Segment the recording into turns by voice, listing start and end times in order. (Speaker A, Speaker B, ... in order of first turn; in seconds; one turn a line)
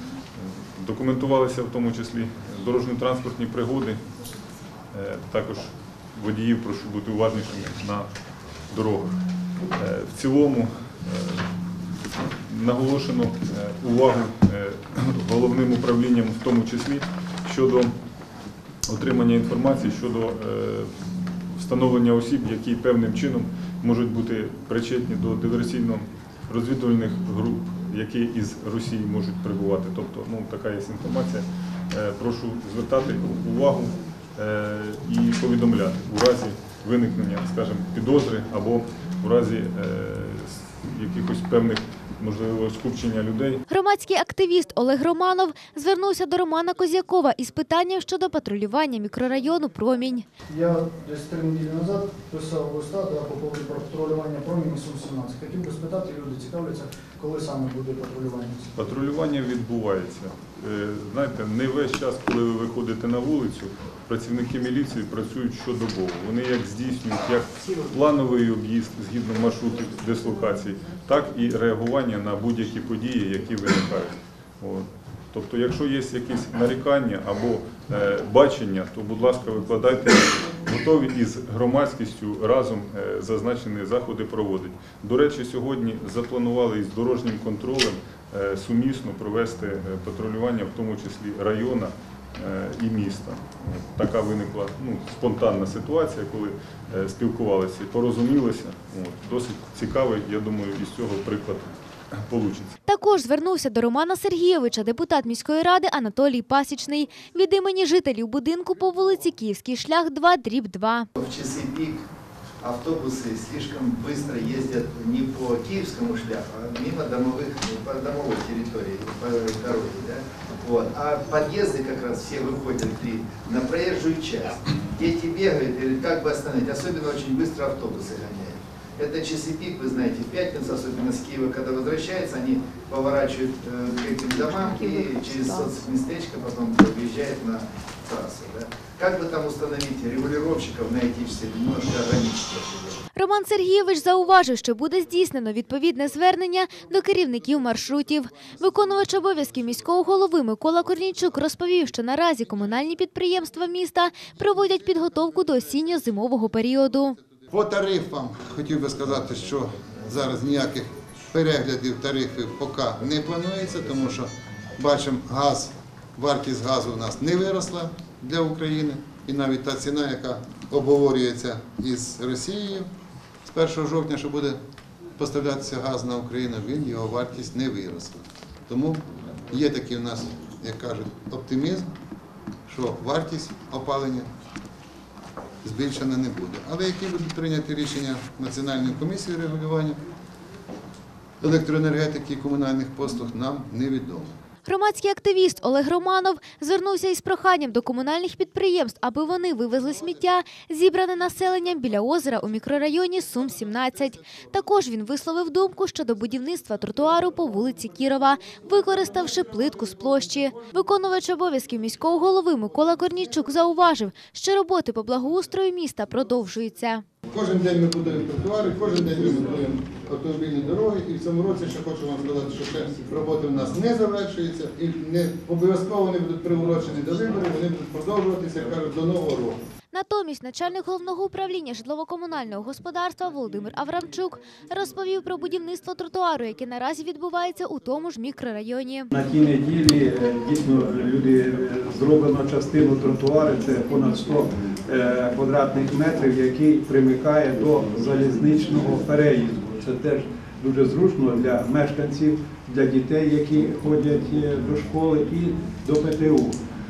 Speaker A: 0.4-4.0
Speaker A: 4.9-8.1
Speaker A: 8.7-9.2
Speaker A: 9.7-17.9
Speaker A: 18.9-20.9
Speaker A: 21.5-43.6
Speaker B: 43.7-50.2
Speaker C: 50.5-58.7
Speaker A: 58.7-102.7
Speaker B: 102.8-111.1
Speaker D: 111.2-112.0
Speaker D: 112.6-143.0
Speaker B: 143.1-157.2
Speaker E: 157.5-172.9
Speaker E: 173.4-174.6
Speaker E: 175.2-181.9
Speaker E: 182.7-184.3
Speaker E: 185.6-190.0
Speaker E: 191.4-194.3
Speaker B: 194.6-217.0
Speaker E: 217.3-229.6
Speaker B: 229.9-239.1
Speaker F: 239.1-256.6